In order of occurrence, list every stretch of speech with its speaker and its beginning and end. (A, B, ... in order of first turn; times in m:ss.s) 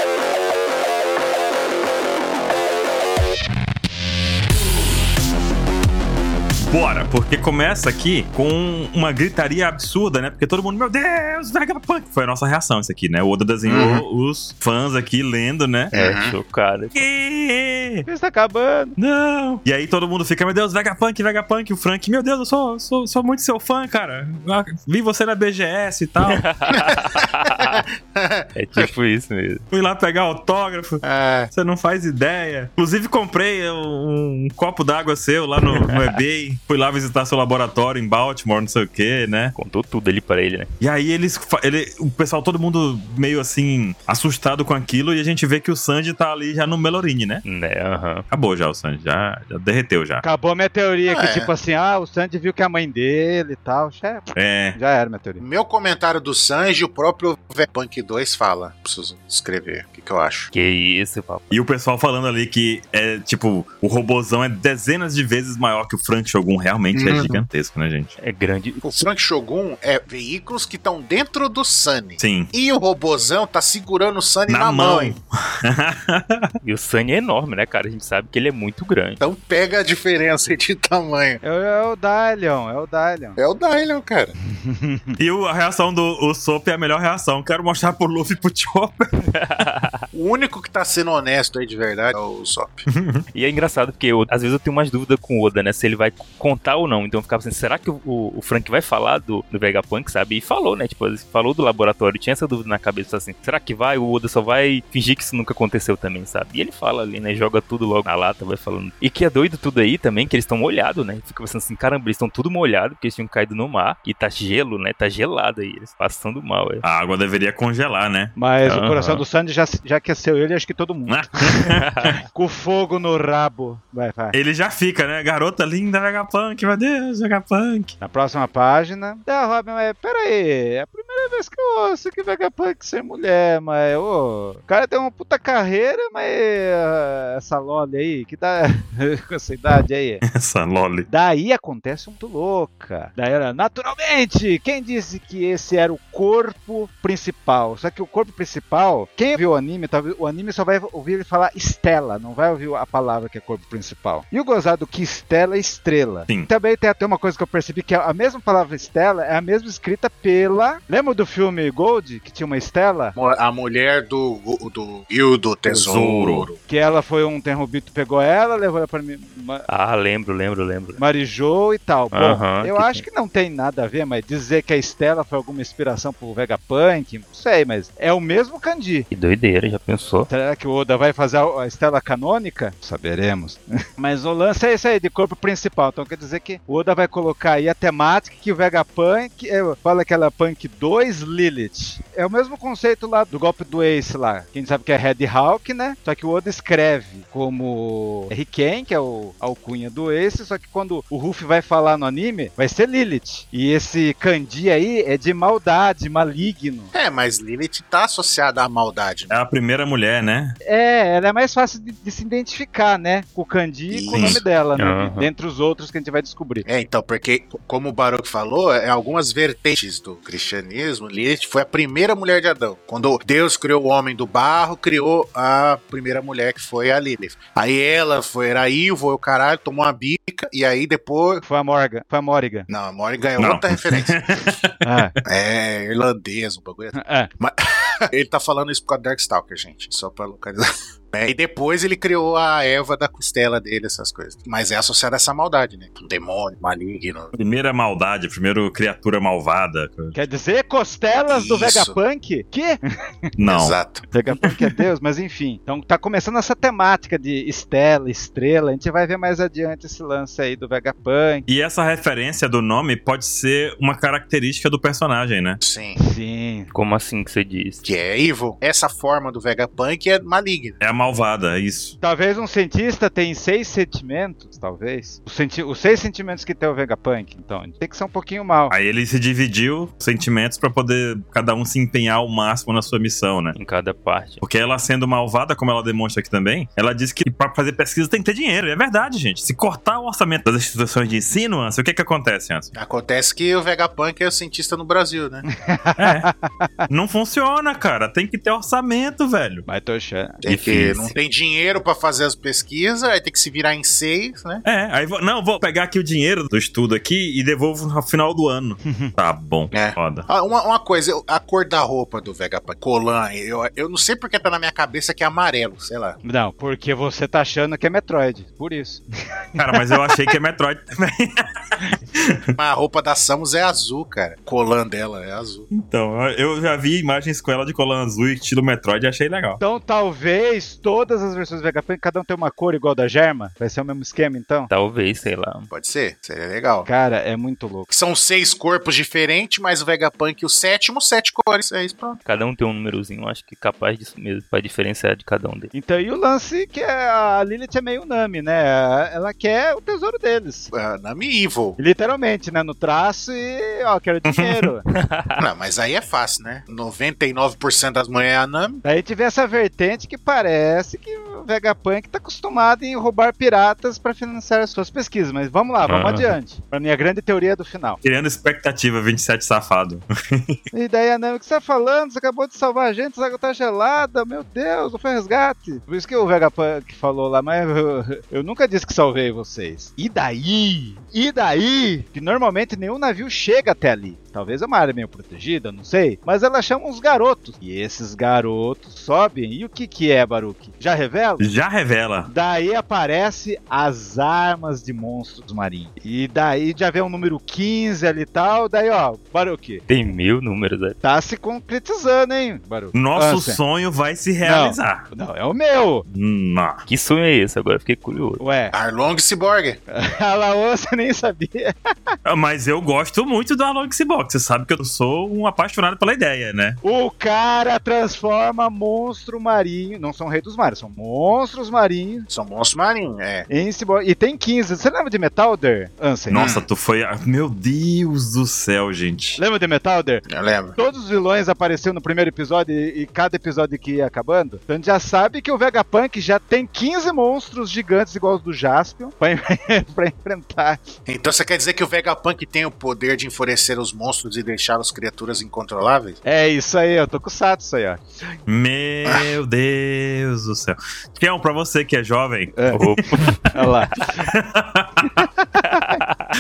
0:06.7-0:15.9 A
0:13.7-0:14.0 B
0:15.9-0:16.4 B
0:15.9-0:17.0 C
0:17.0-0:18.1 A
0:18.1-0:19.0 D
0:19.0-0:26.5 A
0:26.3-0:27.8 C
0:26.7-0:28.9 B
0:28.6-0:29.6 C
0:29.7-0:39.6 A
0:31.0-0:31.5 B
0:35.7-0:36.2 C
0:39.6-0:40.7 C
0:40.8-0:47.4 A
0:47.4-0:48.3 C
0:48.3-0:50.2 A
0:50.2-0:55.4 D
0:51.1-0:51.5 B
0:54.4-0:54.8 A
0:55.4-1:00.5 B
1:00.5-1:01.5 C
1:01.5-1:08.2 A
1:06.9-1:07.4 B
1:08.2-1:08.8 C
1:08.8-1:15.2 B
1:12.2-1:12.5 A
1:14.5-1:16.5 A
1:16.6-1:19.2 C
1:19.2-1:21.4 B
1:21.4-1:23.4 D
1:23.4-1:24.4 B
1:24.6-1:25.2 D
1:25.2-1:29.1 A
1:29.2-1:30.0 C
1:30.1-1:32.9 B
1:32.9-1:33.2 A
1:33.3-1:56.8 C
1:56.8-1:58.3 A
1:58.4-2:01.6 D
1:58.6-1:59.2 C
2:01.1-2:02.2 A
2:02.3-2:04.4 D
2:04.3-2:08.0 A
2:08.0-2:20.2 D
2:20.3-2:21.1 A
2:21.1-2:43.2 D
2:43.2-2:46.6 B
2:45.7-2:46.5 A
2:46.7-2:49.7 D
2:49.7-2:51.0 C
2:51.0-2:59.1 D
2:52.1-2:53.0 C
2:59.1-3:00.3 C
3:00.3-3:26.9 D
3:26.9-3:29.4 B
3:29.3-3:30.6 A
3:30.6-3:36.7 D
3:33.9-3:34.4 B
3:34.8-3:35.3 C
3:36.6-3:51.4 B
3:51.4-3:52.7 D
3:52.7-3:54.5 B
3:53.4-3:55.0 A
3:54.8-3:55.1 D
3:55.2-4:07.3 B
3:57.0-3:57.3 D
4:07.4-4:10.2 A
4:10.1-4:12.8 D
4:11.3-4:12.0 B
4:13.4-4:13.8 A
4:13.4-4:14.1 B
4:14.1-4:21.5 D
4:21.5-4:25.6 A
4:25.6-4:26.0 B
4:26.0-4:26.7 D
4:26.7-4:27.8 C
4:27.8-4:30.8 B
4:30.8-4:32.0 A
4:32.0-4:38.7 D
4:38.7-4:43.6 A
4:43.6-4:44.4 C
4:44.4-4:52.7 A
4:52.8-4:55.5 B
4:55.5-4:56.9 D
4:56.0-4:56.3 A
4:56.9-4:59.7 A
4:59.7-5:00.4 D
5:00.4-5:04.6 B
5:00.5-5:01.1 C
5:04.6-5:10.3 A
5:08.8-5:09.1 D
5:09.7-5:16.2 B
5:16.2-5:19.0 D
5:19.6-5:20.1 D
5:19.6-5:21.4 A
5:22.6-5:25.7 B
5:25.7-5:29.6 A
5:29.6-5:34.7 D
5:34.7-5:35.7 C
5:35.7-5:36.9 B
5:36.9-5:37.9 D
5:37.9-5:42.2 B
5:42.3-5:45.7 C
5:45.7-5:50.7 D
5:50.7-5:51.8 B
5:51.8-5:54.8 D
5:54.3-5:54.7 A
5:54.9-5:55.4 C
5:55.4-5:58.8 B
5:58.8-6:08.0 D
6:05.9-6:06.3 C
6:08.0-6:10.6 A
6:10.7-6:31.5 D
6:31.4-6:32.3 A
6:32.3-6:39.8 D
6:39.9-6:41.0 C
6:41.0-6:43.6 D
6:42.9-6:45.1 A
6:44.4-6:46.1 D
6:46.1-6:46.8 A
6:46.9-6:48.4 C
6:48.4-6:48.7 D
6:48.7-6:49.8 B
6:49.9-6:52.2 D
6:52.2-6:56.8 A
6:56.8-7:02.3 D
7:02.3-7:03.5 B
7:03.5-7:06.5 D
7:06.3-7:09.4 A
7:06.3-7:06.7 B
7:09.4-7:10.2 D
7:10.3-7:10.8 B
7:10.8-7:20.8 D
7:21.1-7:26.2 B
7:26.2-7:28.0 D
7:28.5-7:32.6 A
7:29.0-7:29.3 B
7:32.6-7:32.8 D
7:32.7-7:33.5 C
7:33.5-7:34.2 D
7:34.2-7:35.3 A
7:35.0-7:36.0 D
7:35.7-7:36.3 C